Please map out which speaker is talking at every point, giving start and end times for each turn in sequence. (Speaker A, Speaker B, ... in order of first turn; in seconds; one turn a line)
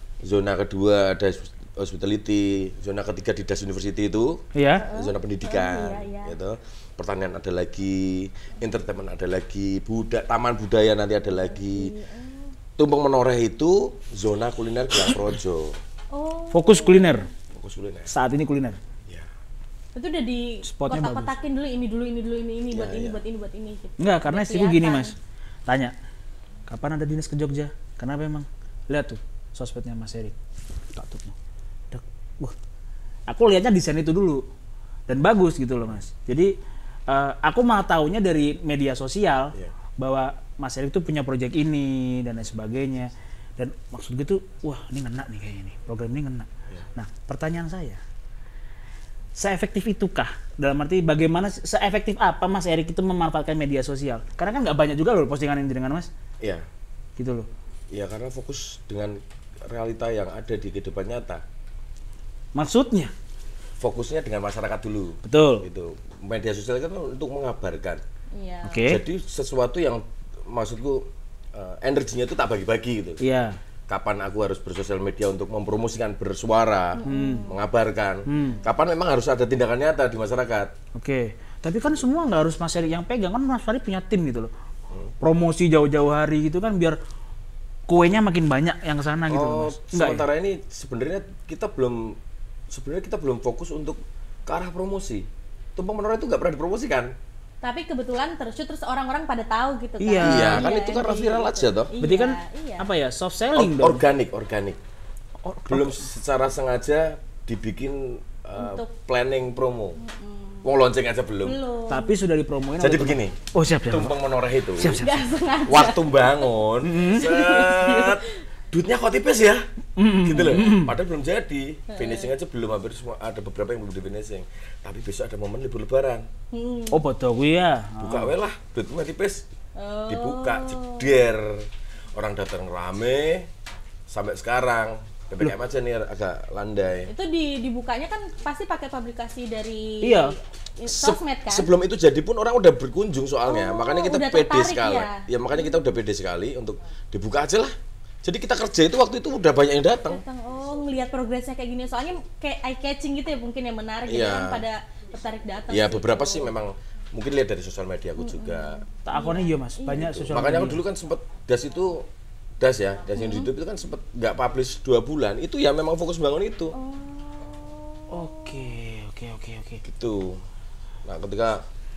Speaker A: 0.2-11.9
Speaker B: 4.5-4.8
Speaker C: 4.8-6.4
Speaker C: 11.3-12.6
Speaker A: 12.8-15.8
Speaker C: 16.1-17.3
Speaker B: 16.5-17.3
Speaker A: 17.5-18.1
Speaker B: 18.1-18.8
Speaker C: 19.9-25.1
Speaker B: 20.6-21.3
Speaker A: 22.7-23.2
Speaker B: 24.0-25.1
Speaker B: 25.7-25.9
Speaker B: 26.7-30.4
Speaker B: 30.9-31.4
Speaker B: 31.9-32.5
Speaker B: 33.3-34.5
Speaker B: 35.1-36.5
Speaker B: 37.1-48.0
Speaker B: 49.4-56.1
Speaker B: 57.2-57.5
Speaker A: 57.9-61.4
Speaker B: 62.5-63.1
Speaker A: 63.8-68.0
Speaker B: 65.2-65.7
Speaker C: 68.3-68.9
Speaker B: 68.6-69.0
Speaker A: 68.8-73.2
Speaker B: 73.2-73.6
Speaker A: 73.9-80.7
Speaker C: 77.0-77.6
Speaker B: 77.0-77.5
Speaker B: 78.3-78.6
Speaker C: 78.3-78.7
Speaker B: 81.0-84.5
Speaker B: 85.2-87.0
Speaker B: 87.9-90.3
Speaker A: 89.3-92.2
Speaker A: 92.7-97.2
Speaker C: 97.6-102.9
Speaker B: 100.0-100.7
Speaker A: 100.2-101.9
Speaker B: 102.0-104.0
Speaker A: 103.5-104.8
Speaker B: 105.4-106.1
Speaker A: 105.7-110.0
Speaker C: 108.5-108.9
Speaker C: 110.0-110.7
Speaker A: 110.6-111.6
Speaker C: 111.4-112.2
Speaker B: 111.9-114.2
Speaker A: 112.8-115.0
Speaker B: 114.8-115.2
Speaker C: 114.9-116.5
Speaker A: 115.7-119.6
Speaker B: 116.8-117.3
Speaker C: 117.1-118.4
Speaker B: 120.0-120.9
Speaker A: 120.2-126.3
Speaker C: 121.9-122.3
Speaker C: 126.5-127.0
Speaker B: 126.9-128.3
Speaker A: 128.0-129.5
Speaker C: 129.8-131.2
Speaker A: 130.1-133.5
Speaker A: 134.1-137.1
Speaker C: 137.1-141.7
Speaker B: 140.0-140.4
Speaker A: 140.9-147.7
Speaker C: 143.5-145.8
Speaker A: 148.2-150.2
Speaker C: 150.0-156.5
Speaker A: 154.1-154.7
Speaker A: 155.7-158.8
Speaker C: 158.2-160.2
Speaker B: 159.1-160.8
Speaker A: 159.9-162.1
Speaker A: 162.6-166.8
Speaker C: 163.2-163.5
Speaker C: 166.7-168.6
Speaker B: 168.1-169.8
Speaker A: 169.8-170.4
Speaker A: 171.1-171.6